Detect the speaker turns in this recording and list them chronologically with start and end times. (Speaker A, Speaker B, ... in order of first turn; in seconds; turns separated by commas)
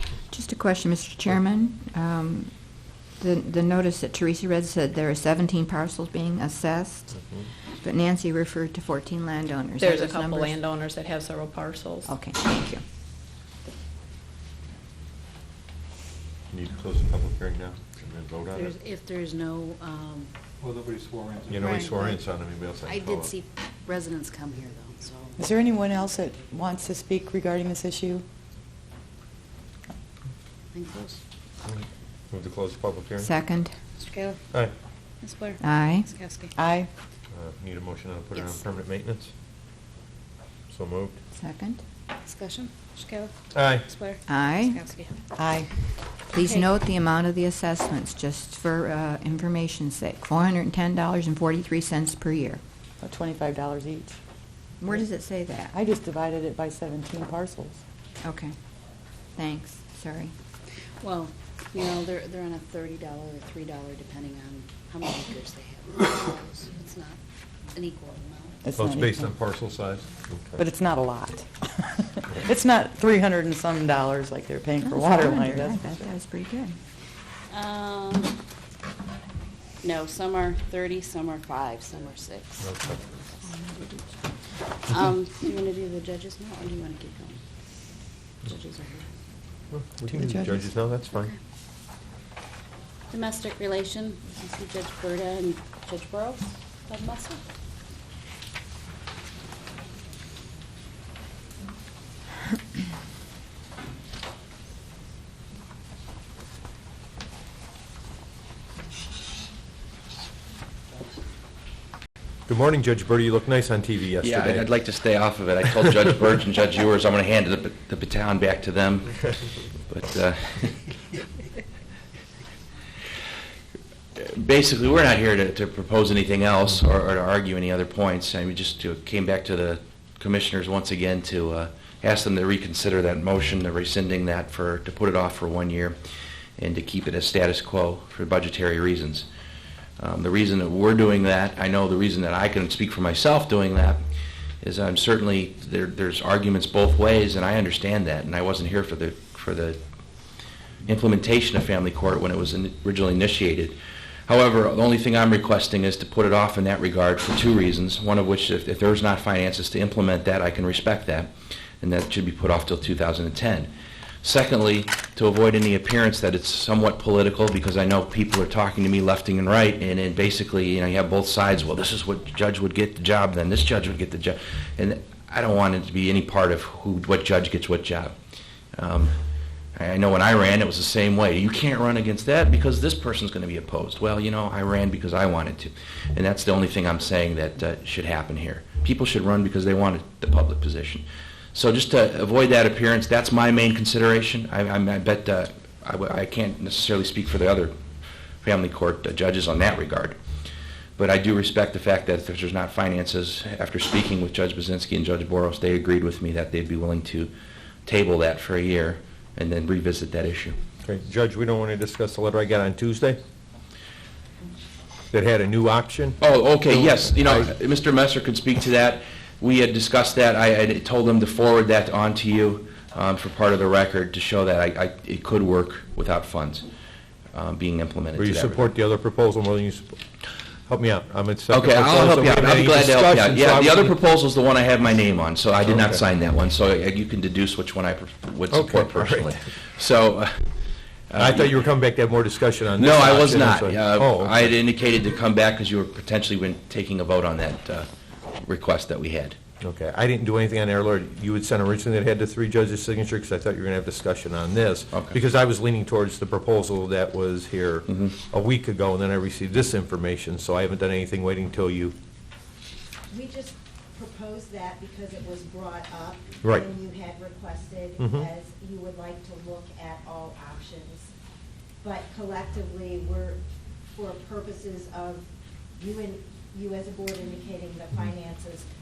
Speaker A: 0.3-2.5, Speaker A: 3.2-7.2, Speaker A: 7.8-10.6, Speaker B: 9.8-12.1, Speaker A: 12.1-12.8, Speaker C: 16.5-18.8, Speaker D: 18.5-20.3, Speaker C: 21.5-23.3, Speaker D: 21.5-22.2, Speaker D: 22.9-26.3, Speaker E: 25.4-28.2, Speaker D: 30.7-31.2, Speaker C: 31.7-33.3, Speaker A: 33.2-33.7, Speaker D: 34.0-34.4, Speaker D: 35.2-36.5, Speaker A: 35.6-36.1, Speaker E: 36.6-36.9, Speaker C: 37.3-39.3, Speaker C: 40.7-41.2, Speaker A: 41.3-41.8, Speaker D: 42.2-43.3, Speaker C: 43.5-43.9, Speaker D: 43.9-45.1, Speaker A: 44.3-44.8, Speaker E: 45.4-45.7, Speaker A: 46.3-52.6, Speaker D: 46.4-46.7, Speaker E: 53.0-54.2, Speaker A: 54.8-55.7, Speaker E: 55.7-57.8, Speaker A: 58.2-58.5, Speaker A: 59.4-60.3, Speaker D: 61.0-67.2, Speaker D: 67.7-68.6, Speaker E: 68.6-69.3, Speaker C: 68.7-70.6, Speaker E: 70.6-76.1, Speaker A: 74.8-76.8, Speaker D: 77.5-78.3, Speaker D: 79.8-82.8, Speaker C: 82.6-83.0, Speaker A: 83.4-84.0, Speaker D: 84.8-87.4, Speaker D: 88.4-89.1, Speaker C: 89.7-91.3, Speaker E: 90.1-90.6, Speaker D: 93.1-97.4, Speaker C: 112.5-114.7, Speaker F: 114.2-119.3, Speaker F: 119.9-120.8, Speaker F: 124.2-136.0, Speaker F: 136.6-139.3, Speaker F: 140.0-144.0, Speaker F: 144.6-149.8, Speaker F: 150.9-153.8, Speaker F: 154.3-163.7, Speaker F: 164.2-178.1, Speaker F: 178.8-179.1, Speaker F: 179.8-197.7, Speaker F: 198.4-200.2, Speaker F: 201.0-207.3, Speaker F: 207.9-210.6, Speaker C: 210.8-213.2, Speaker C: 215.1-217.5, Speaker F: 216.2-226.7, Speaker F: 227.3-228.7, Speaker C: 228.2-230.0, Speaker C: 230.7-234.0, Speaker F: 231.5-240.5, Speaker C: 235.7-236.0, Speaker C: 238.5-239.4, Speaker F: 241.1-241.7, Speaker C: 241.2-244.6, Speaker F: 242.8-249.4, Speaker C: 249.6-261.9, Speaker F: 254.9-255.2, Speaker F: 257.9-258.1, Speaker G: 263.1-271.1, Speaker C: 268.0-268.3, Speaker G: 271.8-273.4, Speaker G: 273.9-278.7